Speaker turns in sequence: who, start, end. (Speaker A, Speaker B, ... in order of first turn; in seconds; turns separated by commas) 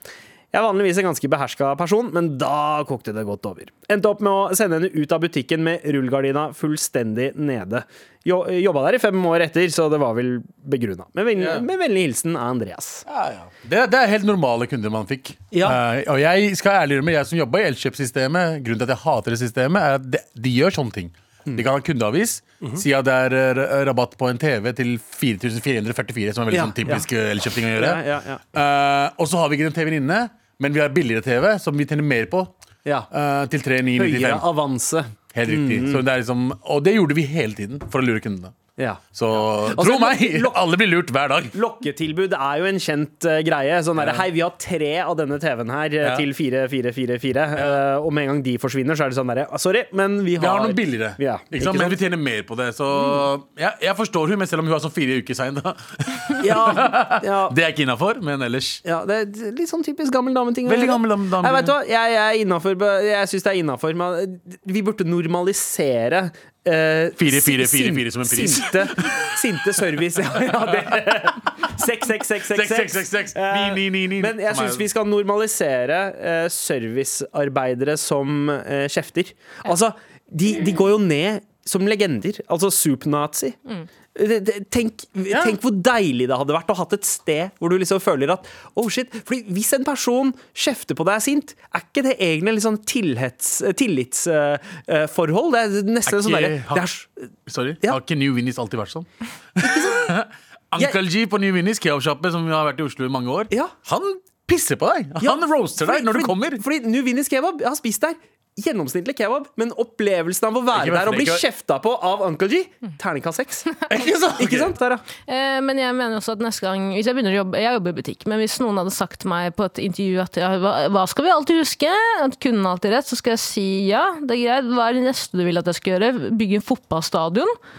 Speaker A: 0.5-13.0, Speaker B: 11.3-11.7, Speaker B: 13.1-32.5, Speaker A: 15.5-15.8, Speaker A: 26.5-27.1, Speaker A: 27.8-28.4, Speaker B: 33.1-34.5, Speaker A: 34.0-36.0, Speaker B: 35.3-38.5, Speaker A: 38.8-39.0, Speaker B: 39.1-41.5, Speaker A: 39.6-40.6, Speaker A: 41.5-52.0, Speaker B: 43.9-44.3, Speaker B: 46.0-46.3, Speaker B: 47.5-47.8, Speaker B: 50.4-58.8, Speaker A: 52.9-53.2, Speaker A: 56.4-57.5, Speaker A: 58.8-83.6, Speaker B: 60.6-61.8, Speaker B: 67.2-69.3, Speaker B: 72.4-74.9, Speaker A: 84.1-97.1, Speaker B: 85.3-85.6, Speaker B: 96.0-96.8, Speaker B: 97.5-106.6, Speaker A: 99.6-100.1, Speaker A: 105.2-113.7, Speaker B: 110.7-111.5, Speaker B: 113.9-114.8, Speaker A: 114.4-115.0, Speaker C: 115.2-127.5